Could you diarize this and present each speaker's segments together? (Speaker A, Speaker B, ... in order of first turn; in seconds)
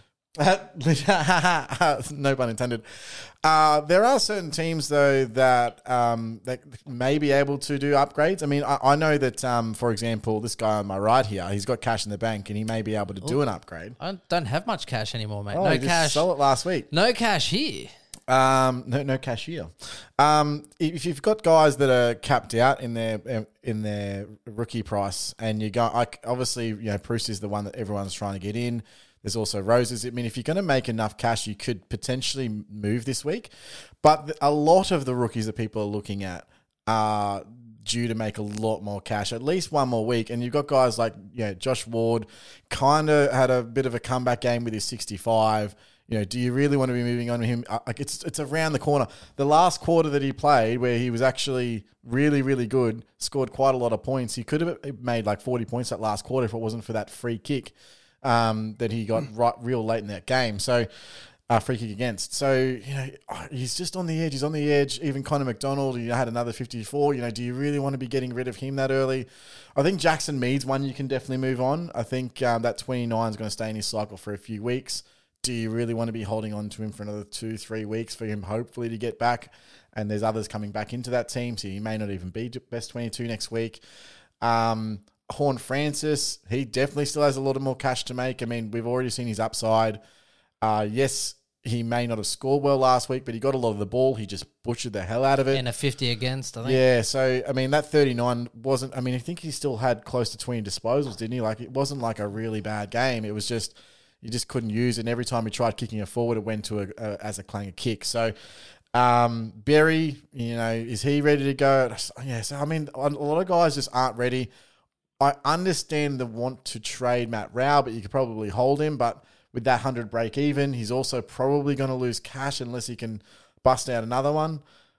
Speaker A: 0.4-14.0, 15.5-16.9, 18.3-33.5, 34.0-83.8, 84.4-90.0, 90.6-95.6, 96.7-108.3, 108.9-114.5, 115.2-124.6
Speaker B: 14.0-16.2, 16.9-17.9, 95.5-96.8